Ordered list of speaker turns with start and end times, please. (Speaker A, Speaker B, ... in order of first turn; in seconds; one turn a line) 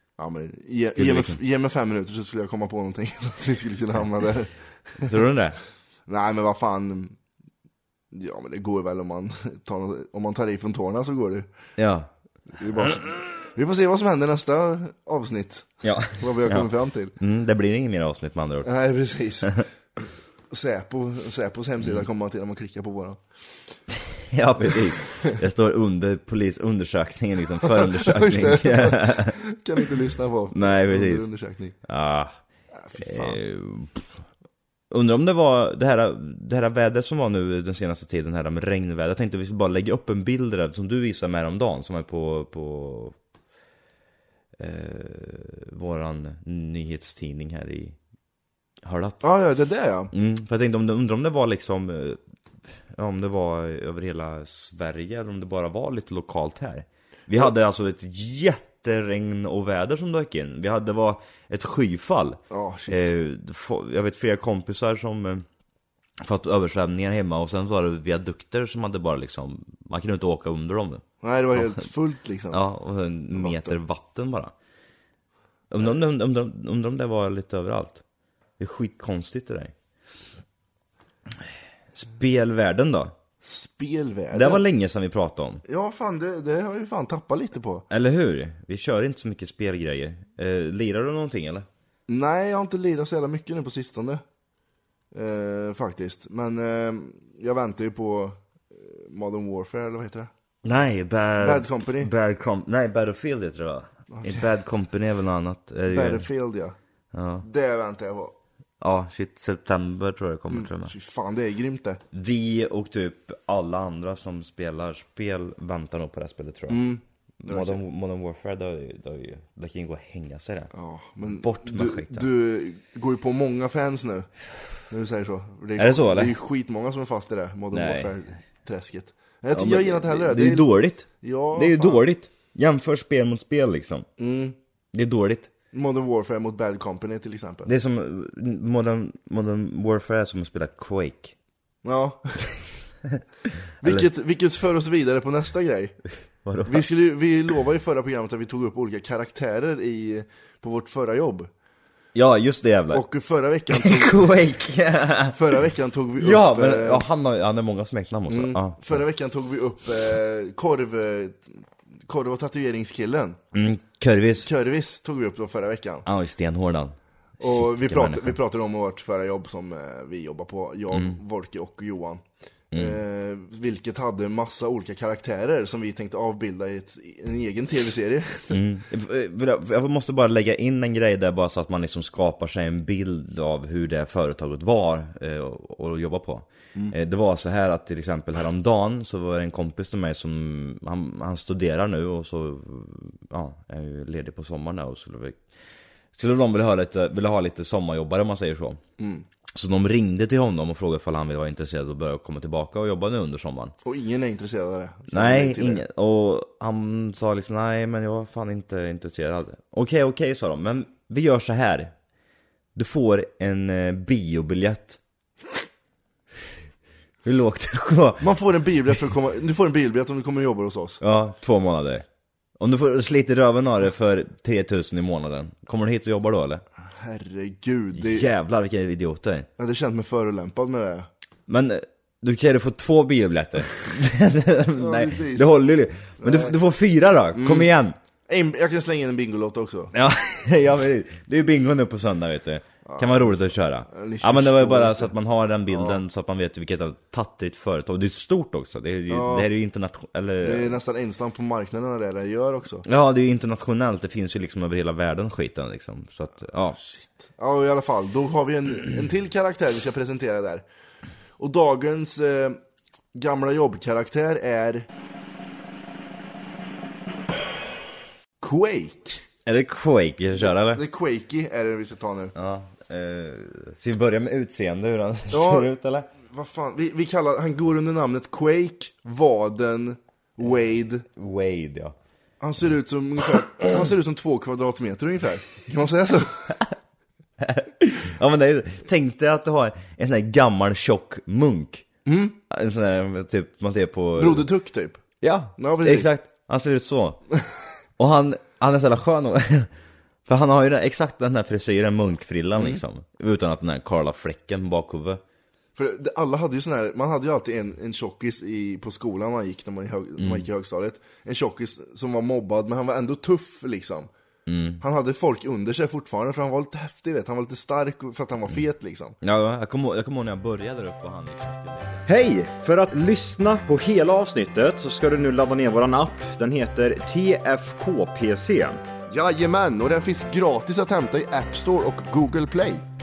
Speaker A: 0.2-5.1
Speaker B: 1.0-1.4
Speaker B: 5.0-5.6
Speaker A: 6.1-7.2
Speaker A: 8.1-11.5
Speaker B: 11.8-12.1
Speaker A: 12.6-17.1
Speaker B: 15.8-18.7
Speaker A: 18.6-19.6
Speaker A: 20.5-23.2
Speaker B: 21.8-22.1
Speaker B: 24.0-29.4
Speaker A: 27.6-31.8
Speaker B: 30.5-31.3
Speaker B: 31.8-32.4
Speaker A: 32.7-33.4
Speaker B: 33.0-34.1
Speaker B: 34.9-43.2
Speaker B: 44.6-48.0
Speaker B: 48.8-49.2
Speaker A: 49.2-50.1
Speaker B: 50.1-65.5
Speaker A: 62.5-63.1
Speaker B: 66.2-71.0
Speaker A: 71.2-72.6
Speaker B: 71.5-71.8
Speaker B: 72.5-74.5
Speaker A: 73.3-73.8
Speaker B: 75.7-78.0
Speaker B: 78.6-79.7
Speaker B: 81.4-83.2
Speaker A: 83.4-84.6
Speaker B: 84.3-85.6
Speaker A: 85.7-87.9
Speaker B: 87.9-91.7
Speaker A: 92.1-94.2
Speaker A: 95.1-100.3
Speaker B: 100.6-106.3
Speaker A: 101.4-102.1
Speaker A: 104.1-104.5
Speaker A: 105.9-106.8
Speaker B: 107.1-107.5
Speaker A: 107.4-108.3
Speaker B: 108.8-110.9
Speaker A: 110.5-112.0
Speaker B: 112.1-116.8
Speaker A: 116.7-117.8
Speaker B: 117.4-120.7
Speaker A: 120.7-124.3
Speaker B: 121.2-122.3
Speaker A: 124.9-130.7
Speaker B: 125.8-126.3
Speaker B: 127.7-128.2
Speaker B: 129.5-134.1
Speaker A: 131.2-132.1
Speaker A: 134.2-134.6
Speaker B: 134.9-135.5
Speaker A: 135.7-137.7
Speaker B: 137.7-141.3
Speaker A: 141.8-142.4
Speaker A: 143.8-145.9
Speaker B: 146.4-146.9
Speaker A: 146.7-151.5
Speaker B: 152.1-153.0
Speaker A: 152.9-154.3
Speaker B: 153.7-155.6
Speaker A: 155.3-157.1
Speaker B: 156.2-159.0
Speaker A: 158.3-163.4
Speaker B: 163.5-164.5
Speaker A: 164.4-166.1
Speaker B: 166.1-168.4
Speaker A: 167.4-172.2
Speaker B: 170.9-171.2
Speaker B: 172.7-173.0
Speaker A: 172.7-178.6
Speaker B: 178.5-195.4
Speaker B: 196.2-198.8
Speaker A: 199.0-199.2
Speaker B: 199.5-203.7
Speaker A: 203.8-205.8
Speaker B: 205.1-211.9
Speaker B: 212.8-215.0
Speaker B: 217.2-218.4
Speaker A: 218.2-221.0
Speaker B: 221.0-222.1
Speaker B: 222.6-226.6
Speaker A: 227.0-228.3
Speaker B: 227.9-229.5
Speaker A: 229.6-231.1
Speaker B: 231.5-238.0
Speaker A: 234.7-235.6
Speaker A: 236.2-236.6
Speaker A: 237.3-237.7
Speaker A: 238.3-239.9
Speaker B: 239.9-250.8
Speaker A: 242.8-245.1
Speaker A: 245.7-246.0
Speaker A: 249.1-249.5
Speaker A: 250.4-252.8
Speaker B: 252.8-256.8
Speaker A: 256.8-260.6
Speaker A: 261.4-262.6
Speaker A: 263.1-264.9
Speaker A: 268.4-269.2
Speaker B: 269.4-270.8
Speaker A: 270.4-272.3
Speaker B: 272.4-276.1
Speaker A: 275.3-281.1
Speaker B: 281.1-282.0
Speaker A: 282.4-286.6
Speaker B: 287.4-291.9
Speaker A: 292.1-292.4
Speaker B: 292.5-294.5
Speaker A: 294.2-295.0
Speaker B: 295.2-297.2
Speaker A: 295.6-296.1
Speaker B: 298.0-299.7
Speaker B: 300.3-305.2
Speaker A: 305.8-314.1
Speaker B: 310.2-310.5
Speaker B: 314.5-314.8
Speaker A: 314.8-319.2
Speaker B: 319.2-322.1
Speaker C: 322.1-328.8
Speaker A: 329.1-332.8